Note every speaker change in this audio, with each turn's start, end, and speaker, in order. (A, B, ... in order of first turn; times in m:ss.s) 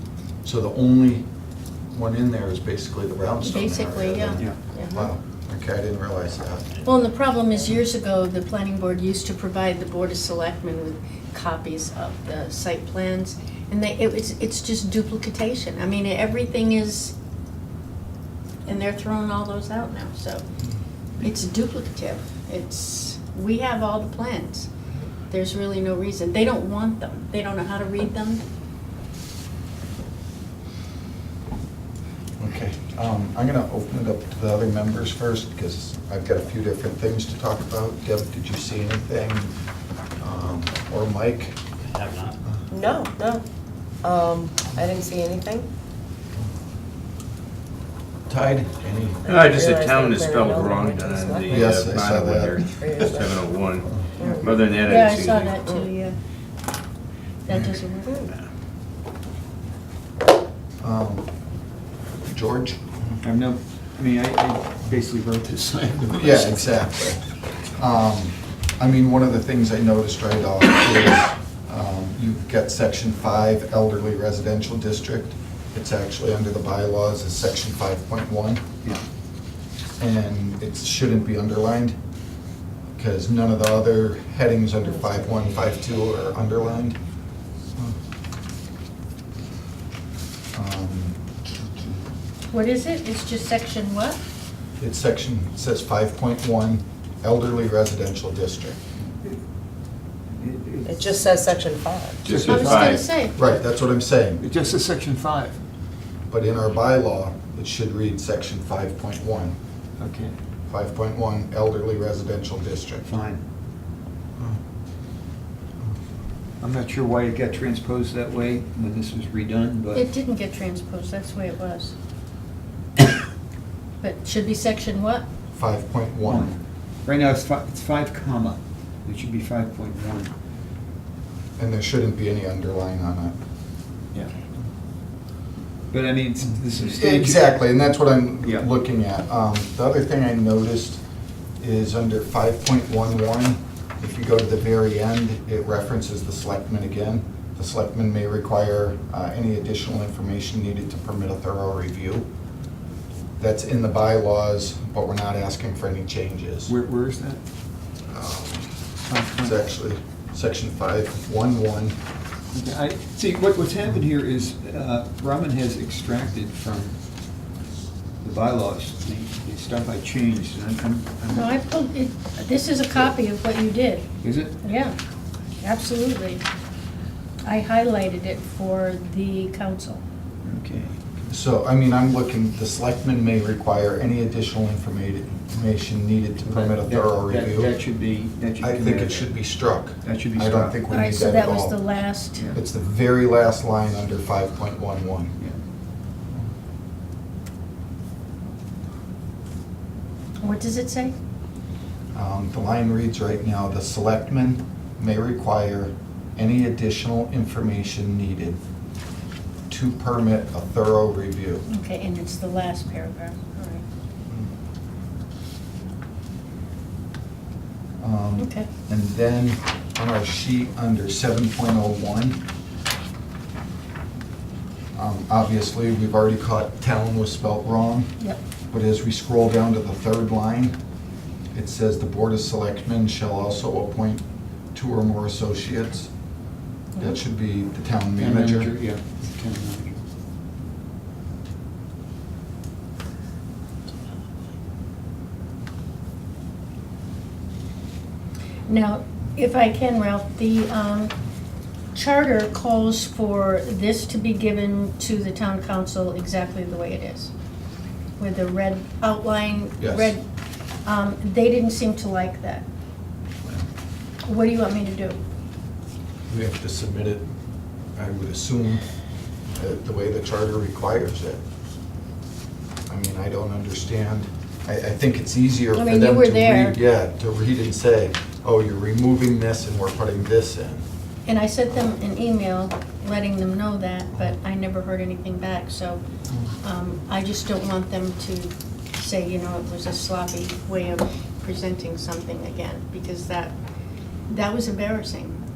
0:00.4-0:01.2 A
0:01.9-0:06.9 A
0:03.4-0:04.5 B
0:04.7-0:05.0 C
0:06.8-0:17.1 B
0:18.6-0:20.4 B
0:21.2-0:24.7 B
0:25.3-0:28.4 B
0:32.4-0:39.5 A
0:40.2-0:41.6 A
0:42.7-0:43.4 C
0:44.0-0:45.7 C
0:48.3-0:49.2 A
0:49.2-0:51.9 C
0:49.2-0:55.6 D
0:51.5-0:52.6 A
0:52.6-0:53.5 C
0:54.2-0:54.6 C
0:54.8-0:56.2 B
0:55.6-0:55.9 C
0:57.4-0:58.3 B
0:58.0-0:58.3 C
1:00.8-1:01.3 A
1:02.2-1:03.1 A
1:03.2-1:06.8 E
1:06.1-1:07.2 A
1:07.8-1:18.6 A
1:20.0-1:22.0 A
1:23.0-1:27.0 A
1:30.5-1:31.2 A
1:32.5-1:34.2 B
1:34.8-1:38.8 A
1:40.4-1:41.5 E
1:40.8-1:42.2 C
1:42.2-1:43.0 E
1:42.2-1:43.0 D
1:42.4-1:43.4 B
1:43.3-1:44.4 A
1:44.4-1:45.6 E
1:46.3-1:49.6 A
1:50.0-1:50.3 E
1:50.7-1:53.1 A
1:53.0-1:53.4 E
1:56.6-2:00.1 E
1:59.9-2:01.9 B
2:04.0-2:05.2 B
2:05.5-2:06.5 A
2:06.2-2:10.3 E
2:11.6-2:13.3 A
2:15.9-2:17.5 E
2:16.9-2:21.0 A
2:18.4-2:18.7 E
2:21.6-2:32.2 A
2:33.4-2:36.7 A
2:36.6-2:37.4 E
2:38.1-2:38.7 A
2:39.0-2:39.7 E
2:39.4-2:42.0 A
2:42.5-2:47.0 E
2:48.2-2:51.6 E
2:51.3-2:54.1 B
2:54.2-2:54.6 E
2:54.6-2:54.9 B
2:55.6-2:56.4 B
2:57.4-3:00.0 B
3:00.4-3:01.0 E
3:01.3-3:07.7 A
3:06.4-3:09.3 E
3:08.6-3:11.8 A
3:10.0-3:10.8 E
3:10.9-3:12.4 B
3:12.3-3:12.6 E
3:12.5-3:15.4 A
3:20.4-3:21.1 B
3:22.1-3:28.6 A
3:29.7-3:31.6 A
3:31.7-3:33.8 B
3:38.0-3:42.4 A
3:38.4-3:38.7 B
3:44.9-3:48.1 A
3:48.7-3:50.7 A
3:51.5-3:56.1 A
3:56.9-3:57.2 B
3:57.0-3:58.7 A
3:58.2-4:00.0 E
4:08.7-4:11.1 B
4:11.9-4:17.3 B
4:18.2-4:20.2 B
4:19.8-4:20.1 A
4:20.8-4:22.6 B
4:24.2-4:25.2 B
4:26.3-4:27.3 A
4:27.9-4:28.8 A
4:29.5-4:31.4 A
4:32.9-4:40.8 A
4:35.7-4:36.8 B
4:41.2-4:46.0 B
4:46.6-4:53.6 B
4:54.3-4:55.4 B